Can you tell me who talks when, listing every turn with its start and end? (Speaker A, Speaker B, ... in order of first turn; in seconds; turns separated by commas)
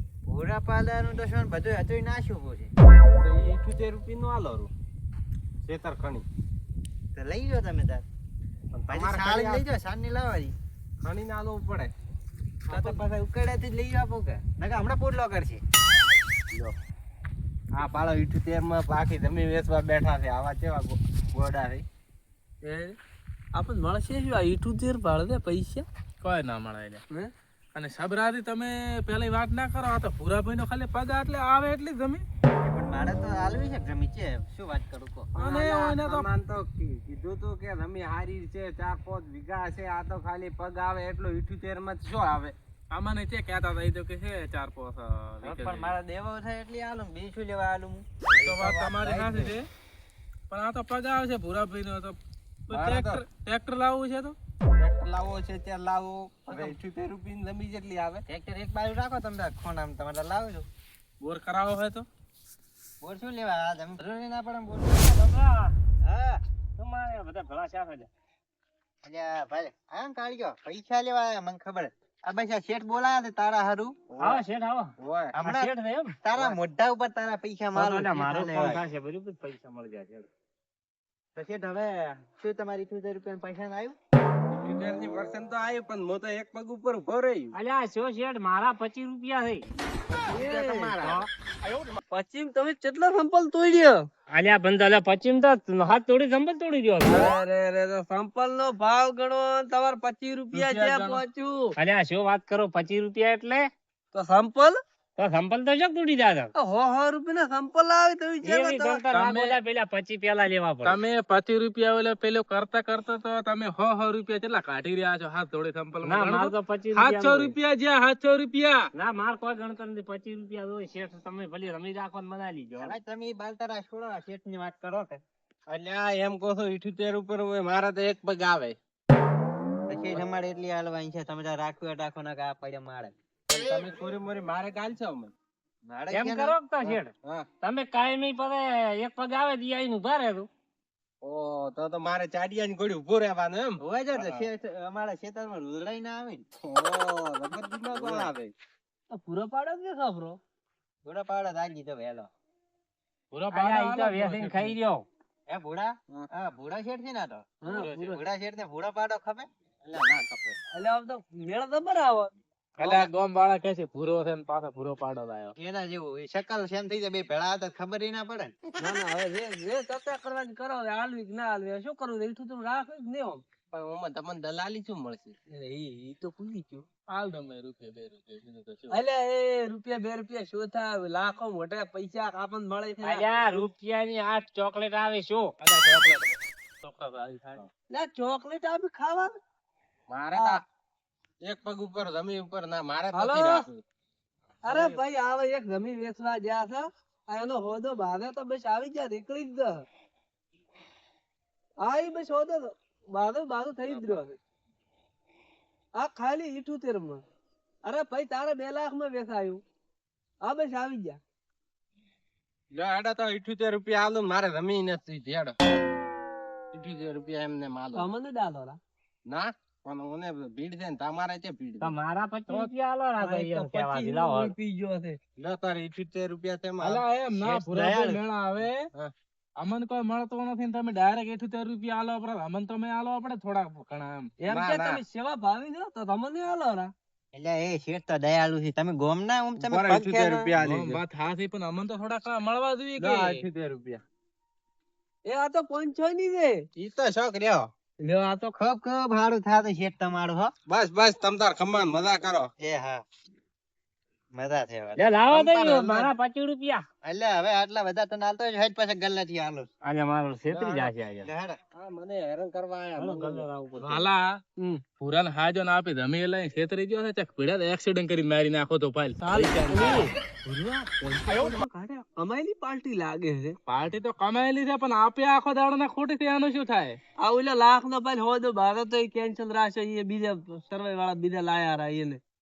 Speaker A: 0.3-2.7, Speaker B: 3.1-4.7, Speaker B: 5.7-6.3, Speaker A: 7.2-8.1, Speaker B: 8.7-9.7, Speaker A: 8.9-10.6, Speaker B: 11.0-11.9, Speaker A: 12.7-15.6, Speaker C: 12.7-13.0, Speaker B: 17.8-21.9, Speaker C: 22.6-23.0, Speaker C: 23.5-25.9, Speaker D: 26.2-27.0, Speaker D: 27.7-32.2, Speaker A: 32.6-35.3, Speaker B: 35.3-42.5, Speaker D: 35.4-36.3, Speaker D: 42.9-46.0, Speaker A: 45.4-49.5, Speaker D: 48.3-49.7, Speaker D: 50.5-52.2, Speaker D: 52.7-54.4, Speaker B: 52.7-53.2, Speaker B: 54.8-58.2, Speaker A: 58.3-60.7, Speaker D: 61.2-62.1, Speaker A: 63.0-65.2, Speaker E: 65.0-65.8, Speaker A: 66.0-66.4, Speaker E: 66.8-68.1, Speaker A: 69.0-74.0, Speaker B: 74.1-74.5, Speaker E: 74.2-76.2, Speaker B: 75.0-75.3, Speaker A: 75.3-75.7, Speaker A: 76.2-78.8, Speaker E: 77.7-80.3, Speaker A: 81.3-84.0, Speaker B: 84.5-87.5, Speaker E: 87.5-89.7, Speaker B: 90.1-91.3, Speaker C: 90.3-91.0, Speaker E: 91.0-91.3, Speaker D: 91.6-92.0, Speaker C: 92.1-94.1, Speaker E: 94.3-97.3, Speaker C: 97.1-101.7, Speaker D: 100.5-101.2, Speaker E: 101.8-103.7, Speaker C: 104.1-104.8, Speaker E: 105.2-106.5, Speaker C: 106.6-109.0, Speaker E: 108.4-111.0, Speaker D: 109.1-109.6, Speaker D: 110.8-118.9, Speaker E: 116.0-117.6, Speaker E: 119.0-123.0, Speaker A: 122.8-125.2, Speaker B: 125.7-128.8, Speaker A: 129.9-133.1, Speaker B: 133.5-135.3, Speaker A: 135.9-136.6, Speaker E: 136.1-140.5, Speaker B: 136.8-137.5, Speaker B: 141.2-144.5, Speaker A: 143.8-146.4, Speaker B: 146.6-148.5, Speaker A: 147.9-148.3, Speaker C: 149.1-150.4, Speaker A: 151.1-152.3, Speaker D: 153.3-154.8, Speaker E: 153.5-155.1, Speaker A: 155.5-160.6, Speaker C: 157.6-158.2, Speaker C: 160.7-162.3, Speaker D: 162.8-165.6, Speaker A: 162.8-163.1, Speaker A: 165.6-168.6, Speaker C: 168.8-173.4, Speaker B: 173.7-175.4, Speaker C: 175.5-176.9, Speaker D: 177.1-179.0, Speaker C: 178.9-183.3, Speaker E: 183.0-185.6, Speaker D: 185.6-187.7, Speaker C: 187.9-189.3, Speaker B: 190.1-190.6, Speaker C: 190.3-190.6, Speaker B: 191.4-193.8, Speaker C: 193.1-193.7, Speaker C: 194.7-199.8, Speaker C: 201.8-204.4, Speaker C: 206.0-207.2, Speaker C: 207.8-209.6, Speaker C: 210.4-211.2, Speaker B: 212.7-215.6, Speaker B: 216.7-218.1, Speaker C: 217.9-218.8, Speaker B: 219.3-221.9, Speaker E: 221.8-224.5, Speaker C: 222.5-225.2, Speaker B: 225.4-227.0, Speaker D: 226.8-228.9, Speaker A: 227.4-228.2, Speaker D: 229.6-234.3, Speaker C: 234.4-236.9, Speaker B: 234.5-235.0, Speaker A: 237.3-240.5, Speaker B: 239.6-241.0, Speaker D: 240.6-243.4, Speaker B: 243.0-244.0, Speaker C: 245.3-246.6, Speaker B: 246.8-247.7, Speaker C: 248.0-248.5, Speaker A: 248.6-250.5, Speaker B: 250.7-252.5, Speaker A: 252.6-253.0, Speaker A: 254.3-255.1, Speaker E: 255.0-256.8, Speaker B: 255.3-256.1, Speaker A: 257.0-259.7, Speaker E: 259.8-261.3, Speaker B: 260.5-260.9, Speaker A: 261.2-261.6, Speaker B: 261.7-263.5, Speaker E: 263.0-264.0, Speaker D: 263.8-264.4, Speaker D: 265.0-270.1, Speaker C: 269.2-273.6, Speaker D: 271.3-271.6, Speaker D: 273.7-277.0, Speaker C: 277.2-282.2